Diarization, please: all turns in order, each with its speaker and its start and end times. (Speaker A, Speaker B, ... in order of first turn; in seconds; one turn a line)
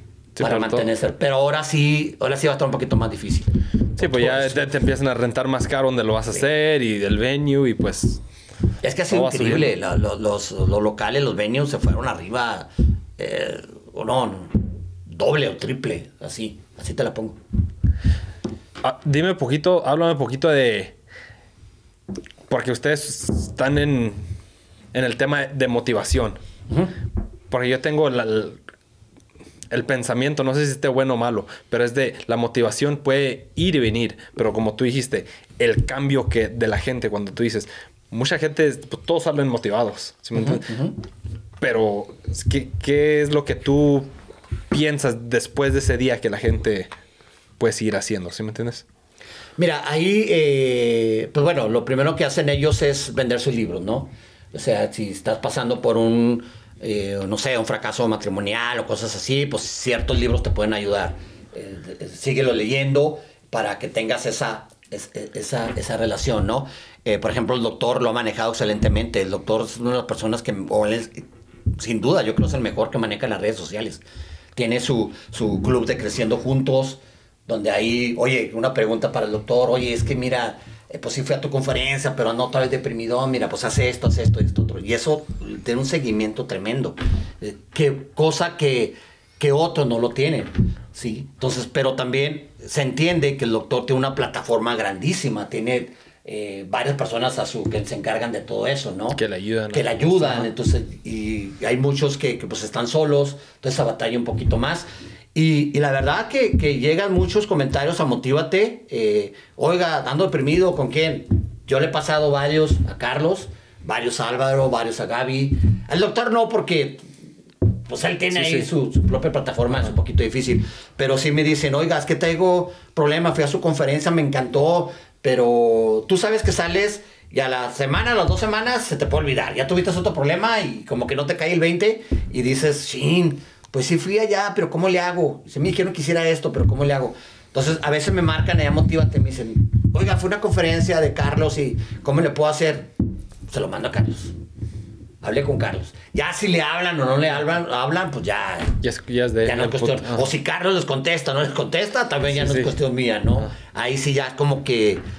Speaker A: 0.4-0.9
Speaker B: 0.4-4.7
Speaker A: 4.0-8.2
Speaker B: 8.8-17.4
Speaker A: 9.1-9.7
Speaker A: 18.8-20.9
Speaker A: 22.5-24.2
Speaker A: 24.9-26.4
Speaker B: 26.7-26.9
Speaker A: 27.5-28.6
Speaker A: 29.7-40.7
Speaker B: 40.3-40.9
Speaker A: 41.6-44.1
Speaker A: 44.7-46.9
Speaker A: 47.6-48.8
Speaker B: 49.6-71.2
Speaker B: 71.8-74.0
Speaker B: 74.5-99.2
Speaker A: 99.1-100.5
Speaker B: 99.7-117.0
Speaker B: 117.9-142.9
Speaker A: 118.3-118.7
Speaker B: 143.5-144.3
Speaker B: 145.2-148.8
Speaker A: 148.8-150.2
Speaker B: 149.4-155.0
Speaker A: 152.3-152.7